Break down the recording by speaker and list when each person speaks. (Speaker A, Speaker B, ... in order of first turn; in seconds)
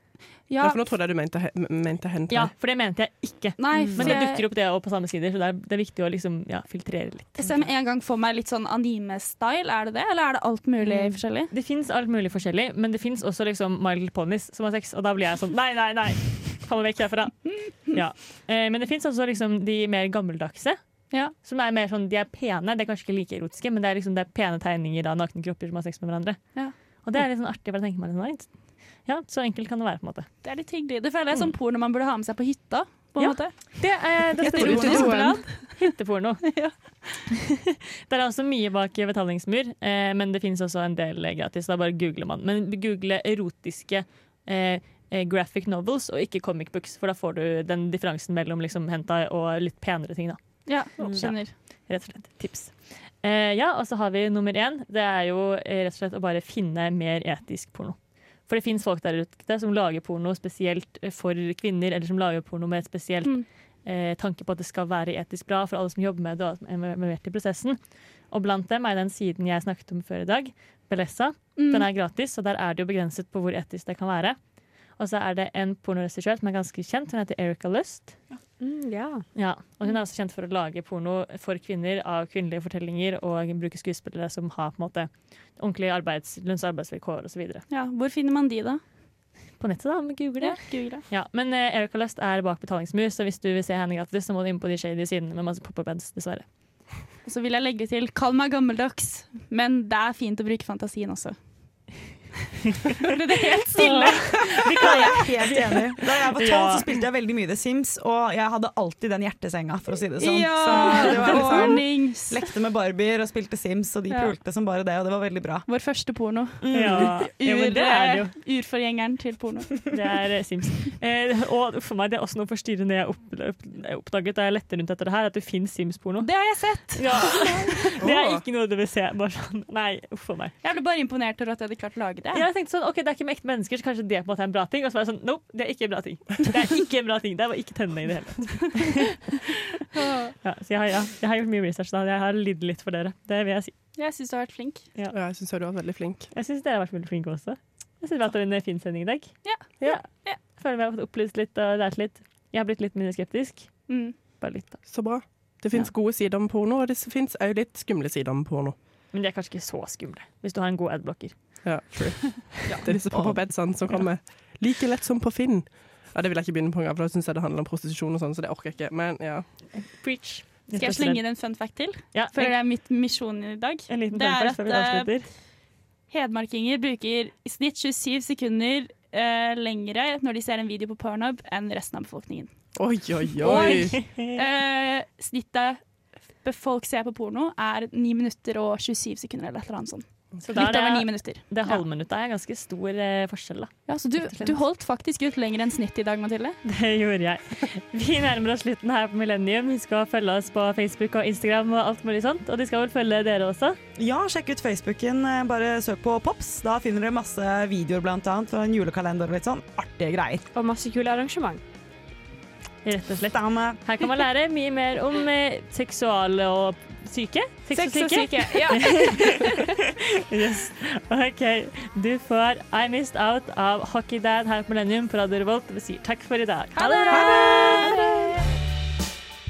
Speaker A: 0.5-0.9, 3.6-4.4, 7.4-11.5, 30.4-37.1, 50.6-51.5, 71.5-71.9, 87.7-88.8, 90.4-91.0, 97.2-102.1, 103.0-105.3, 110.2-112.5, 114.1-114.3, 115.7-119.9, 126.2-127.9, 130.6-132.4, 139.9-140.3, 143.9-144.9, 149.4-150.4, 153.9-154.2, 170.7-175.4, 176.1-191.8, 193.9-196.6, 226.8-228.0
Speaker B: 0.6-2.5, 128.0-128.4, 145.1-146.3, 154.8-158.8, 161.6-169.8, 182.7-184.1
Speaker C: 2.3-7.7, 10.8-30.5, 33.2-37.0, 38.1-78.2, 79.3-87.6, 89.6-96.5, 104.6-105.0, 106.4-106.8, 116.7-118.3, 119.9-130.6, 132.3-139.0, 140.4-143.7, 146.3-155.9, 159.1-161.8, 169.7-172.7, 173.9-175.3, 183.4-184.3, 190.4-194.6, 196.6-203.8, 212.8-219.6, 220.3-227.5
Speaker D: 3.8-4.2, 51.0-51.3, 78.6-79.3, 210.5-211.6, 217.7-219.5, 227.8-228.4
Speaker E: 34.4-35.4, 104.8-115.7, 116.6-117.3, 162.7-163.6, 203.9-210.4, 213.3-213.8